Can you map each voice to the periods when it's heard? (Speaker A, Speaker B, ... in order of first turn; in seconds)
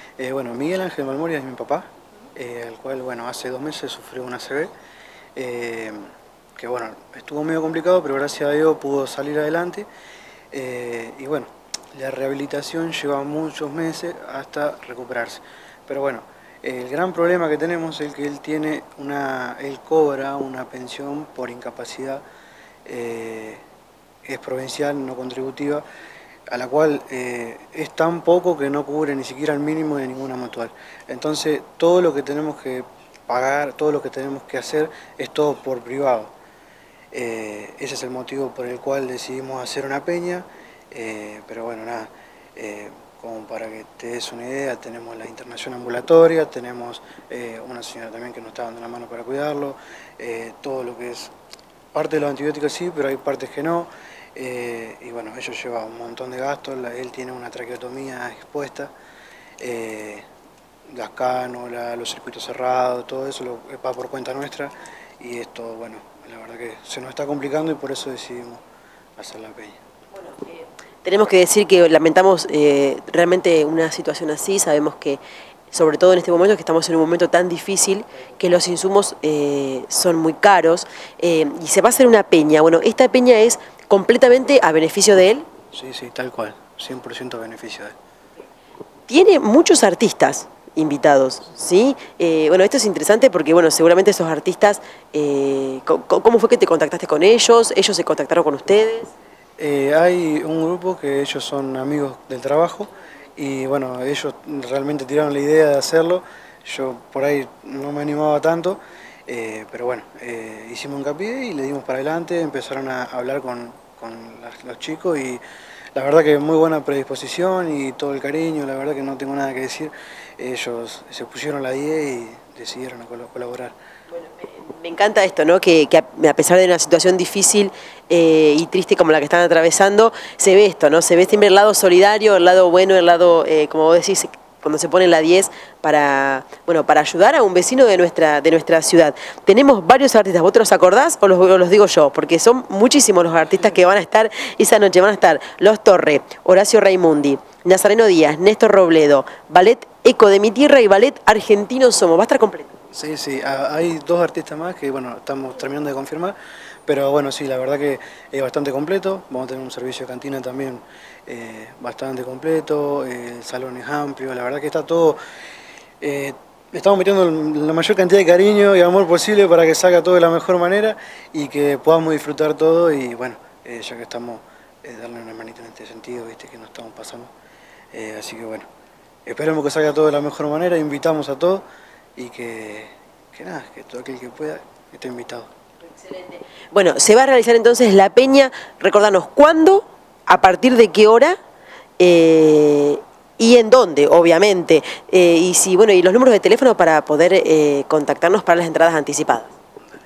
Speaker A: 0.2-4.7, 5.4-6.0, 6.6-9.9, 10.5-22.2, 22.9-23.6, 24.3-25.8, 26.5-36.3, 37.1-51.3, 51.9-58.9, 59.6-60.2, 60.9-68.6, 69.2-69.8, 85.7-88.0, 99.6-115.4, 116.0-123.8, 152.9-165.2, 166.0-177.3, 177.9-178.7, 179.3-181.6, 182.2-185.5
Speaker B: 70.2-85.5, 89.1-99.1, 124.1-152.7, 185.8-191.4, 192.0-199.5